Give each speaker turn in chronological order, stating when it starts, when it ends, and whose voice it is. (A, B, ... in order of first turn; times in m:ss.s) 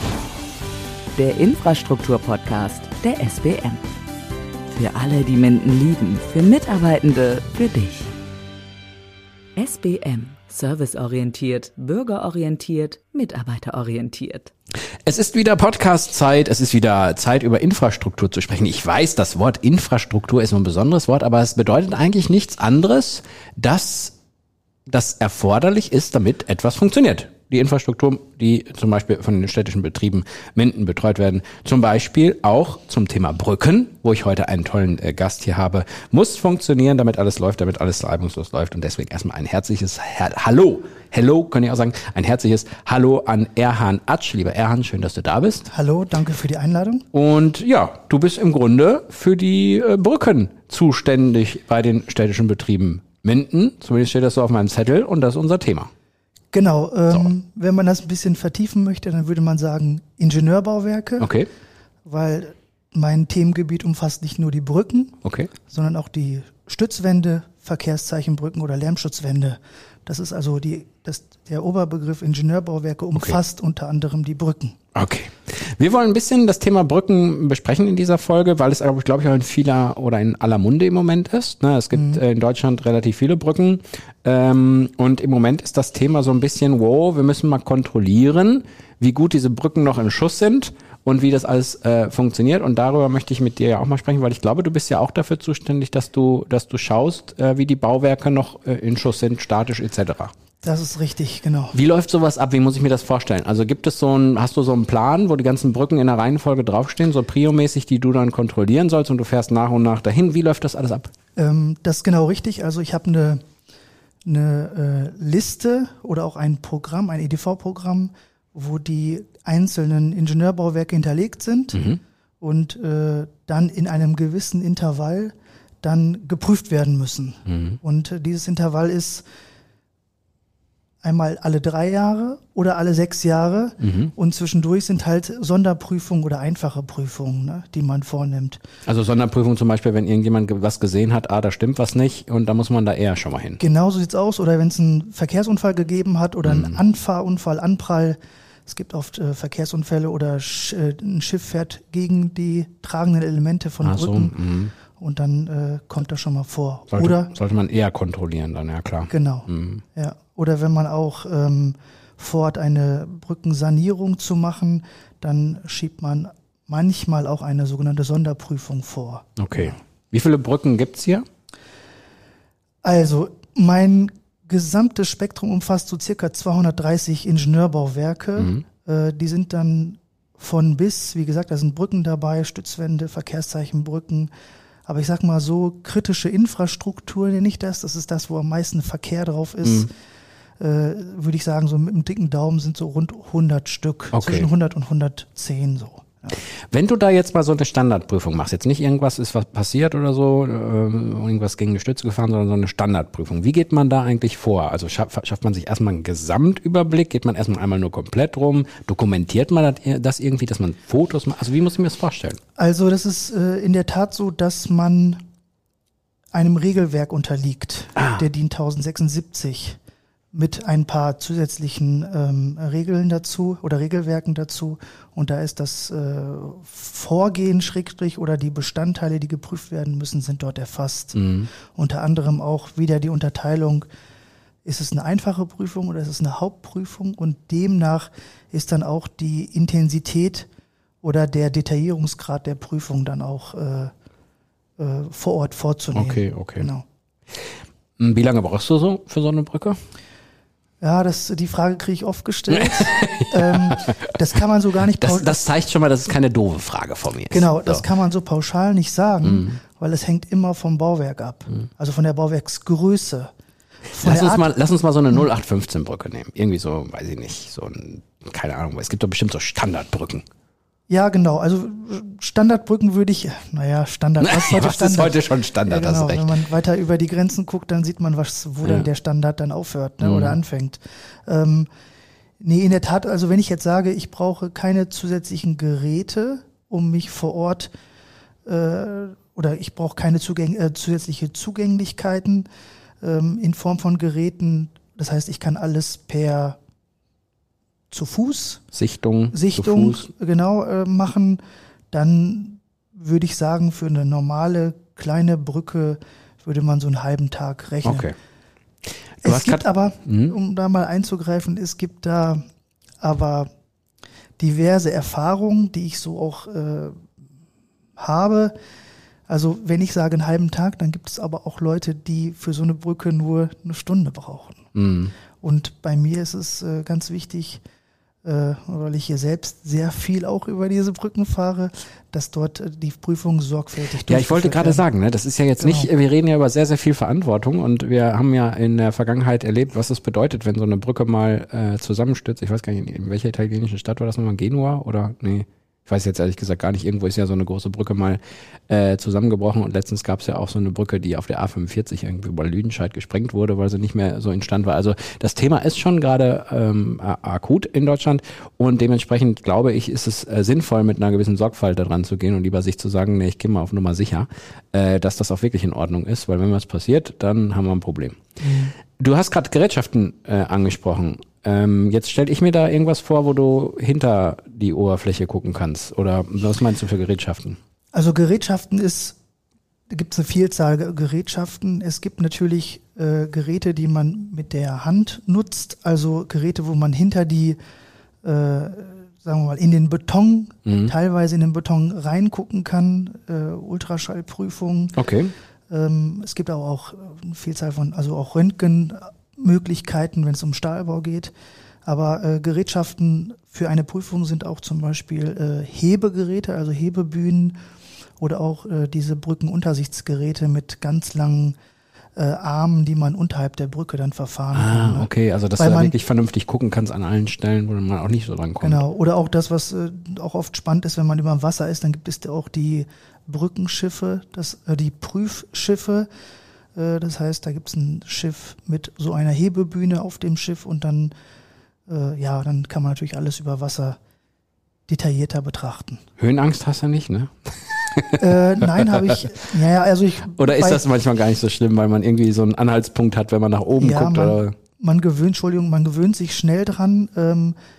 0:01.2-0:03.8 A
0:04.7-0:08.1 A
0:09.6-0:14.5 A
0:15.0-0:24.2 B
0:24.9-0:45.7 B
0:45.7-0:47.0 C
0:47.1-0:55.9 B
0:56.5-1:01.3 C
1:01.2-1:01.5 B
1:02.1-1:14.8 C
1:05.2-1:05.5 B
1:15.0-1:40.3 B
1:21.9-1:22.2 C
1:40.6-1:41.8 C
1:41.7-1:51.1 B
1:51.4-1:53.4 C
1:54.2-2:01.8 C
2:01.7-2:02.0 B
2:02.4-2:09.2 C
2:07.5-2:07.8 B
2:11.0-2:18.6 C
2:13.8-2:14.1 B
2:18.9-2:23.6 B
2:23.6-2:37.3 C
2:26.4-2:26.8 B
2:33.8-2:34.7 B
2:36.9-2:39.8 B
2:39.1-2:49.8 C
2:49.4-2:51.3 B
2:52.8-3:04.3 C
2:58.4-2:58.6 B
3:04.9-3:09.9 C
3:10.6-3:16.4 C
3:14.1-3:14.5 B
3:16.7-3:32.4 B
3:32.6-3:35.2 C
3:36.3-3:39.8 C
3:38.0-3:38.2 B
3:40.3-3:53.9 C
3:51.2-3:51.5 B
3:54.6-4:00.5 C
4:01.0-4:03.9 C
4:04.8-4:06.8 C
4:05.9-4:06.7 B
4:07.3-4:09.8 B
4:10.8-4:15.4 C
4:12.5-4:14.0 B
4:15.0-4:17.8 B
4:17.3-4:23.3 C
4:19.2-4:19.6 B
4:23.9-4:24.5 C
4:24.0-4:30.3 B
4:30.9-4:41.7 C
4:34.2-4:36.4 B
4:40.0-4:40.4 B
4:42.4-4:47.7 C
4:48.4-4:52.5 C
4:53.0-4:56.6 C
4:57.9-4:58.6 C
4:58.7-5:00.1 B
4:59.3-5:01.4 C
5:01.9-5:08.1 C
5:07.8-5:08.2 B
5:09.2-5:12.4 C
5:09.2-5:10.4 B
5:13.0-5:13.5 C
5:14.4-5:17.0 C
5:18.0-5:18.5 C
5:19.3-5:24.7 C
5:24.8-5:25.1 B
5:25.4-5:27.6 C
5:28.2-5:34.8 C
5:34.0-6:08.2 B
5:35.6-5:35.9 C
6:08.4-6:08.7 C
6:08.8-6:17.6 B
6:17.9-6:19.2 C
6:19.9-6:27.6 C
6:28.2-6:35.0 C
6:30.7-6:30.9 B
6:35.0-6:35.3 B
6:35.7-6:41.3 C
6:41.9-6:47.6 C
6:48.2-6:51.6 C
6:52.2-6:56.0 C
6:54.5-6:58.8 B
6:58.6-7:06.1 C
7:06.8-7:11.1 C
7:11.9-7:14.0 C
7:14.9-7:16.0 C
7:16.2-7:18.9 B
7:18.2-7:20.8 C
7:20.4-7:24.5 B
7:23.8-7:27.6 C